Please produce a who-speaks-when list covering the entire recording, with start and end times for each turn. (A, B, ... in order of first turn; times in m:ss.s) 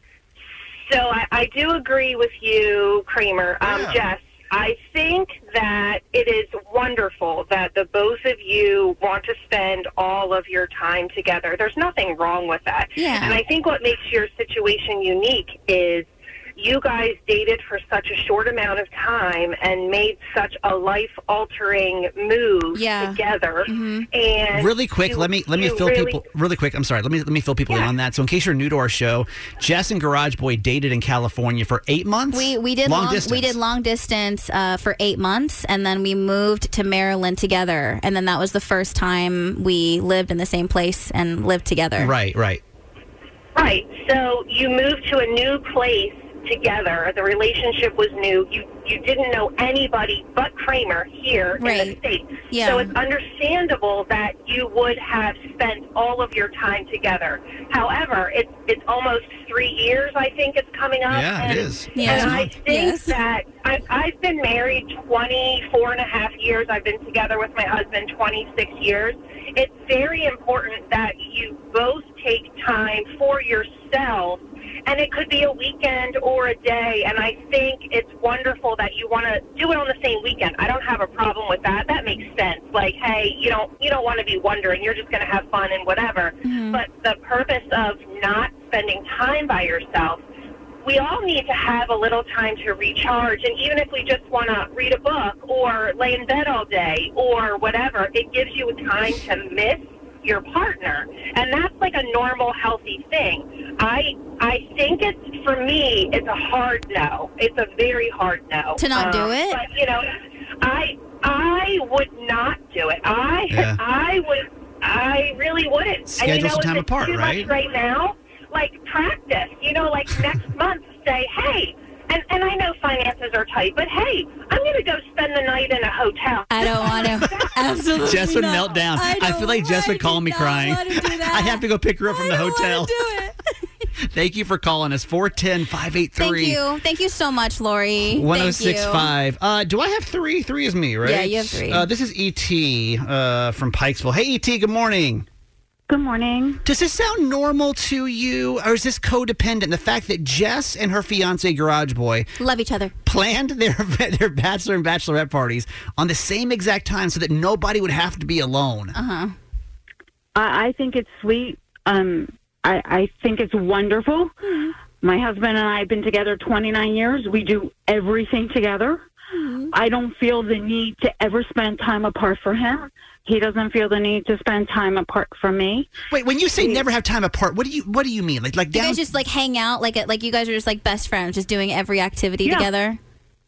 0:00.9-0:26.2 A
0:03.6-0:04.0 B
0:13.0-0:13.4 C
0:22.7-0:24.1 C
0:24.5-0:33.6 B
0:32.3-0:42.1 C
0:42.0-0:42.6 B
0:43.6-1:30.2 A
0:51.6-0:52.0 C
0:52.5-0:52.9 C
1:01.1-1:02.5 B
1:02.0-1:03.2 C
1:26.4-1:26.8 C
1:30.8-2:07.5 A
1:48.8-1:49.6 C
1:53.5-1:53.8 B
1:56.1-1:57.5 B
2:06.5-2:13.4 C
2:07.9-2:13.0 B
2:14.1-2:16.6 B
2:16.2-2:19.1 C
2:18.1-2:25.3 B
2:21.0-2:21.9 C
2:25.9-2:26.6 D
2:26.6-2:32.3 B
2:32.4-2:33.0 C
2:33.0-2:39.0 B
2:38.9-2:39.4 C
2:40.4-2:44.4 D
2:44.4-2:44.7 C
2:45.0-2:49.0 D
2:49.3-2:49.7 C
2:49.7-2:55.9 D
2:56.1-2:59.0 B
2:58.7-3:03.0 C